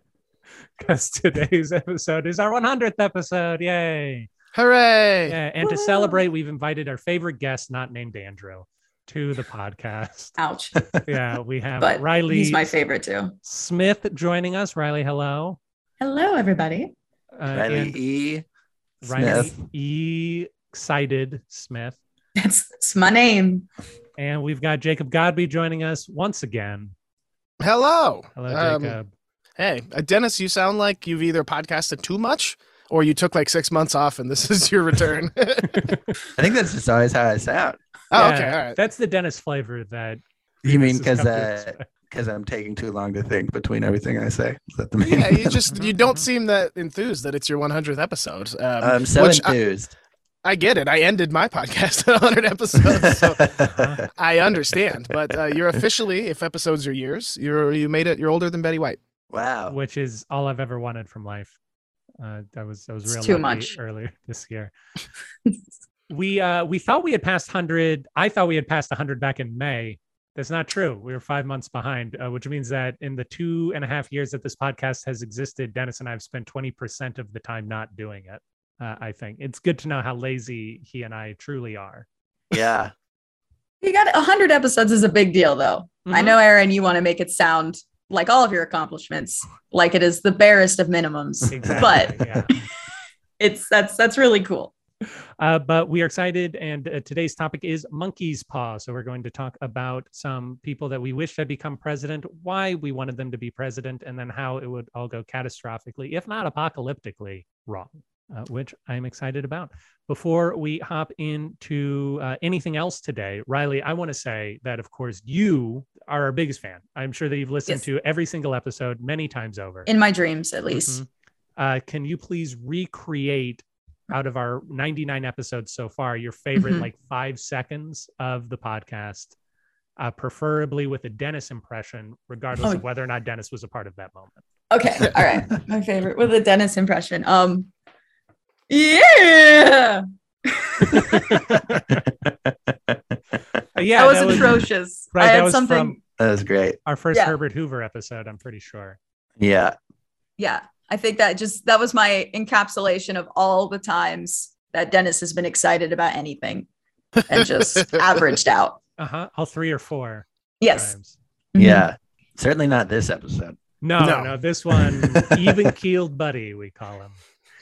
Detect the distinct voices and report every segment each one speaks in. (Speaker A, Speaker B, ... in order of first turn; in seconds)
Speaker A: 0.8-4.3, 5.3-10.3, 11.1-12.7, 13.4-15.6, 17.4-17.9, 19.0-22.0, 24.2-26.9, 28.4-29.1, 35.7-36.0, 38.1-41.8, 45.7-46.2, 53.7-54.0, 59.7-61.5, 62.2-64.7, 66.1-82.0, 86.0-86.4, 91.5-92.5, 95.1-119.9, 120.7-129.3, 130.0-134.4, 141.1-142.0, 143.8-144.6, 145.1-146.0, 146.8-149.0, 159.0-161.2, 163.8-167.2
Speaker B: 4.5-5.4, 27.6-29.0, 29.6-35.9, 38.1-38.8, 45.0-49.5, 50.4-53.5, 54.1-59.0, 164.0-164.3
Speaker C: 5.6-6.2, 10.4-10.8, 11.8-13.3, 16.0-16.9, 22.4-23.7, 63.1-63.7, 83.8-92.3, 93.4-94.7, 119.9-121.0, 126.5-126.9, 134.7-137.7, 138.7-141.5, 143.9-146.0, 150.4-156.7, 157.2-158.8, 160.6-160.9, 161.5-161.9
Speaker D: 17.5-18.4, 19.0-19.6, 36.4-37.8, 40.6-45.6, 48.8-49.9, 53.4-53.7, 59.3-59.7, 82.5-82.9, 146.2-146.8, 149.4-149.7, 161.6-163.6